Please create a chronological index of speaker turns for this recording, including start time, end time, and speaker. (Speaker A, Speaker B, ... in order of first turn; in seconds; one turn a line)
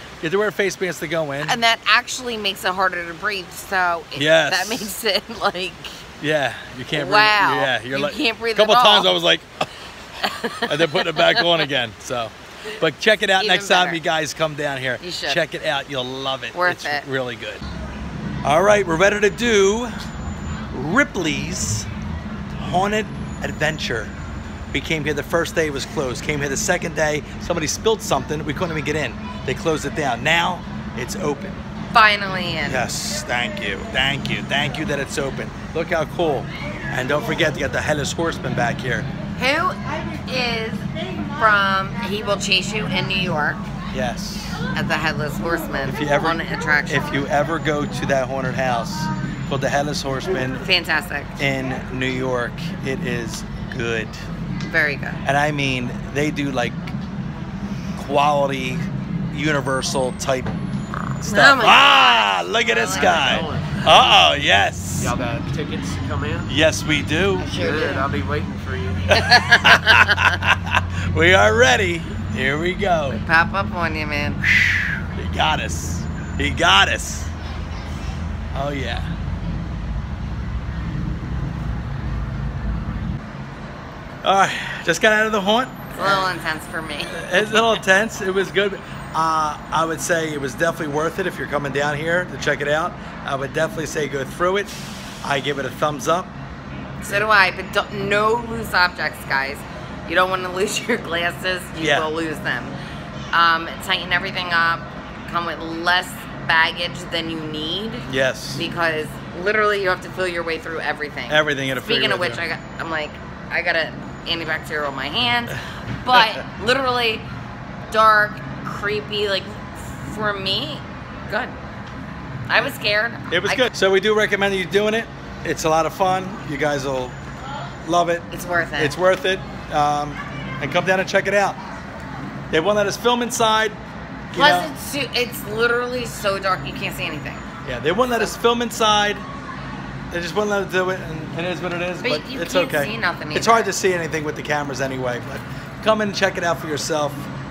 Speaker A: 0.2-1.6
Speaker B: 1.4-6.0
Speaker A: 4.2-4.9
Speaker A: 6.2-9.7
Speaker B: 6.9-9.1
Speaker B: 10.2-11.7
Speaker A: 10.6-17.6
Speaker B: 13.4-14.0
Speaker B: 15.0-15.4
Speaker B: 16.5-17.1
Speaker A: 18.4-19.9
Speaker A: 20.7-21.9
Speaker A: 22.5-24.1
Speaker A: 24.7-31.6
Speaker B: 31.9-32.9
Speaker A: 32.7-39.1
Speaker B: 39.4-43.7
Speaker A: 43.9-44.7
Speaker B: 44.7-47.2
Speaker A: 45.8-50.7
Speaker B: 50.6-51.4
Speaker A: 51.4-54.2
Speaker B: 54.6-55.2
Speaker A: 55.2-57.0
Speaker A: 58.0-60.5
Speaker A: 61.2-65.2
Speaker B: 61.2-63.6
Speaker C: 62.9-64.1
Speaker C: 65.0-66.5
Speaker A: 66.5-67.5
Speaker B: 67.4-68.1
Speaker C: 67.5-69.1
Speaker B: 69.1-70.4
Speaker A: 69.2-73.2
Speaker B: 73.1-74.4
Speaker A: 74.5-77.3
Speaker A: 78.5-79.1
Speaker A: 84.2-86.4
Speaker B: 85.9-87.7
Speaker A: 87.0-96.3
Speaker B: 97.0-102.8
Speaker A: 101.8-102.1
Speaker B: 103.3-117.3
Speaker A: 108.1-108.7
Speaker A: 111.3-112.4
Speaker A: 116.1-116.5
Speaker B: 117.9-121.6
Speaker B: 122.5-123.7
Speaker A: 123.3-127.2
Speaker A: 127.8-131.6
Speaker B: 128.3-129.0
Speaker A: 132.5-133.8
Speaker A: 134.3-134.7
Speaker B: 134.3-137.5
Speaker A: 137.6-139.3
Speaker A: 140.1-147.3
Speaker B: 142.0-143.7